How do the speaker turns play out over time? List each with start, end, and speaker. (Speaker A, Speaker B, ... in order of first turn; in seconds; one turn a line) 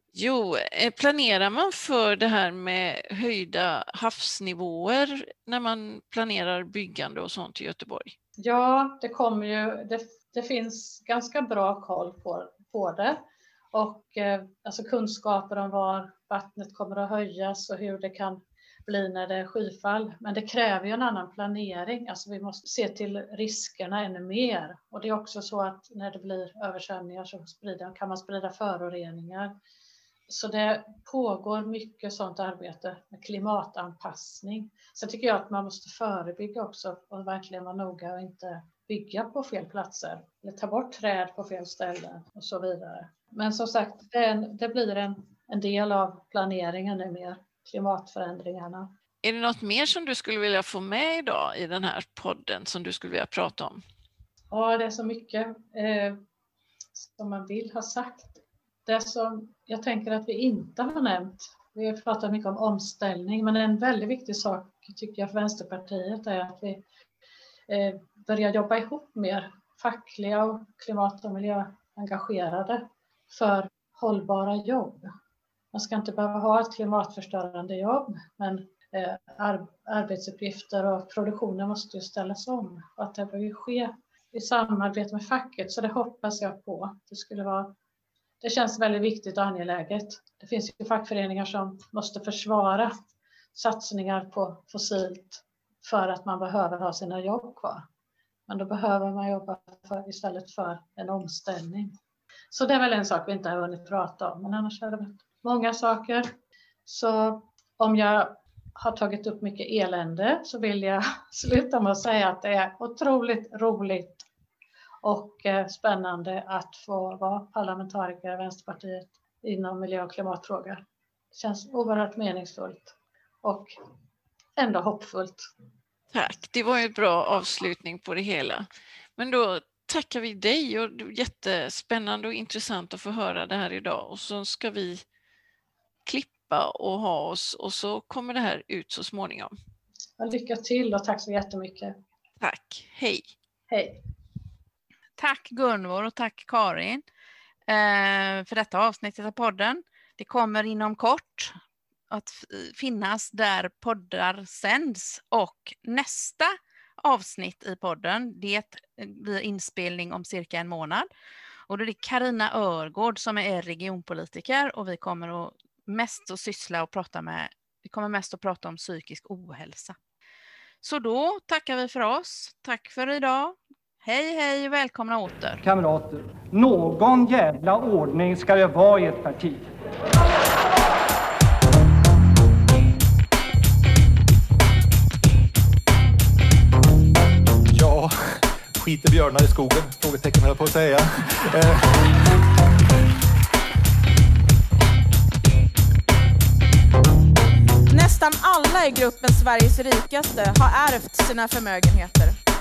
Speaker A: 0.1-8.1
Speaker B: 8.4-13.2
Speaker B: 13.7-29.5
Speaker B: 30.3-48.9
Speaker A: 49.2-53.8
Speaker B: 54.5-56.2
Speaker B: 57.0-66.8
Speaker B: 67.7-75.1
Speaker B: 75.7-87.7
Speaker B: 88.4-92.9
Speaker B: 93.5-97.8
Speaker B: 98.5-101.9
Speaker B: 102.5-106.3
Speaker B: 106.8-114.2
Speaker B: 115.0-120.8
Speaker B: 121.3-123.8
Speaker B: 124.6-125.5
Speaker A: 126.1-128.7
Speaker A: 129.2-135.0
Speaker A: 136.1-139.5
Speaker B: 140.2-141.9
Speaker A: 142.4-143.3
Speaker B: 143.7-144.0
Speaker C: 145.2-147.0
Speaker C: 147.7-151.5
Speaker C: 152.1-161.1
Speaker C: 161.7-169.9
Speaker C: 170.8-175.6
Speaker D: 175.6-179.7
Speaker E: 187.7-192.4
Speaker F: 197.9-202.4